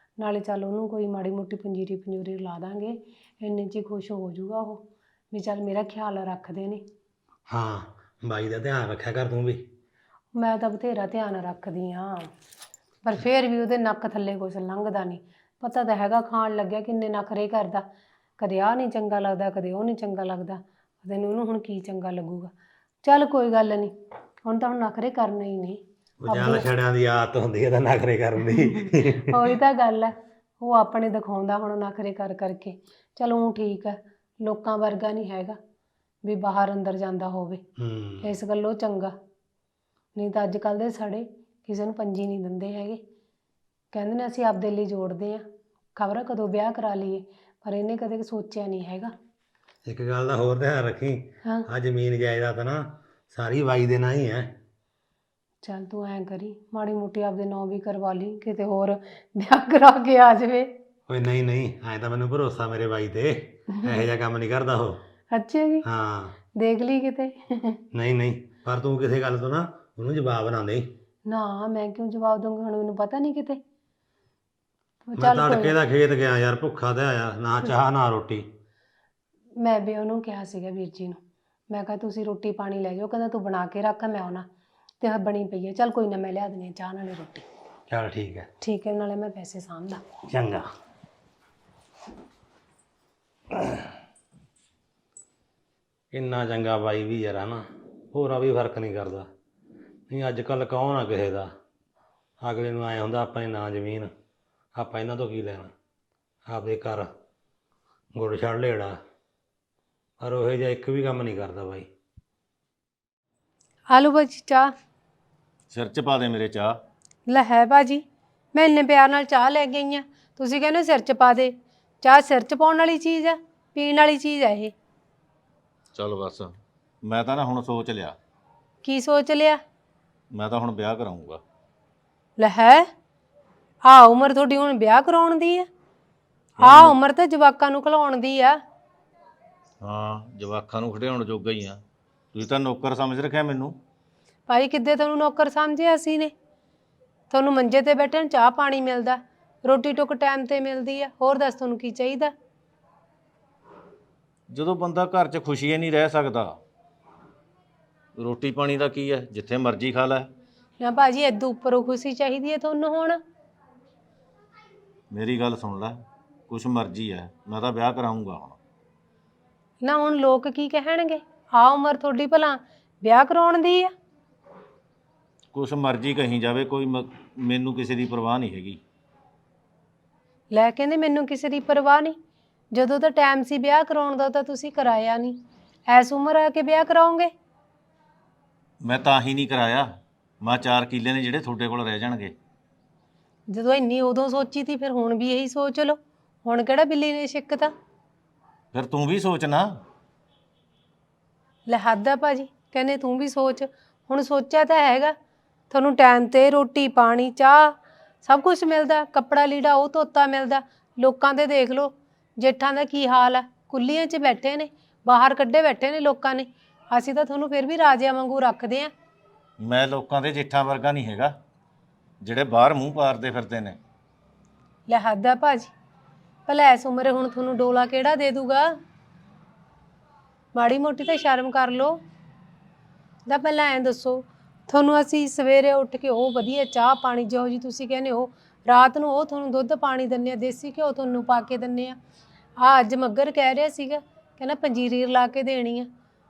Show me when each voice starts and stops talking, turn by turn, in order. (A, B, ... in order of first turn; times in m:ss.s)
0:00.2-0:06.8 A
0:07.5-0:09.6 B
0:10.3-0:12.3 A
0:13.0-0:17.8 A
0:18.4-0:23.9 A
0:24.4-0:26.7 A
0:26.2-0:29.5 B
0:28.5-0:35.6 A
0:36.2-0:37.6 A
0:37.8-0:38.3 B
0:38.2-0:39.1 A
0:40.1-0:43.0 A
0:43.9-0:45.4 A
0:46.0-0:49.1 A
0:49.8-0:54.6 B
0:55.6-1:00.8 A
1:01.1-1:05.0 B
1:03.7-1:04.0 A
1:05.3-1:05.9 A
1:05.8-1:06.3 B
1:06.5-1:07.8 A
1:07.9-1:10.9 B
1:11.2-1:13.6 A
1:15.1-1:15.7 A
1:15.2-1:18.4 B
1:19.6-1:24.5 A
1:25.0-1:27.4 A
1:27.9-1:28.5 B
1:28.6-1:30.0 A
1:30.3-1:30.7 B
1:36.1-1:39.3 B
1:40.1-1:41.5 B
1:42.4-1:44.1 B
1:44.7-1:45.7 B
1:46.5-1:47.1 B
1:48.1-1:49.0 B
1:50.2-1:51.9 B
1:53.9-1:54.7 A
1:55.7-1:56.8 C
1:57.3-2:04.7 A
2:05.9-2:08.2 C
2:08.8-2:09.6 A
2:10.3-2:11.4 C
2:12.4-2:12.9 A
2:13.8-2:15.7 A
2:16.6-2:17.0 C
2:16.6-2:18.6 A
2:19.8-2:21.8 C
2:22.3-2:23.8 C
2:24.5-2:26.3 A
2:27.3-2:32.3 A
2:34.5-2:36.6 C
2:38.2-2:40.3 C
2:40.8-2:43.2 A
2:45.1-2:48.6 C
2:49.8-2:53.9 A
2:55.5-2:58.8 C
3:00.5-3:02.2 A
3:02.7-3:07.3 A
3:08.8-3:09.9 C
3:10.4-3:12.3 C
3:13.5-3:17.7 A
3:18.7-3:19.8 C
3:21.6-3:25.2 A
3:25.7-3:38.9 A
3:39.6-3:41.3 C
3:42.2-3:43.8 C
3:44.9-3:45.7 A
3:46.5-3:48.8 A
3:50.5-3:52.0 A
3:53.2-4:02.0 A
4:02.6-4:05.9 A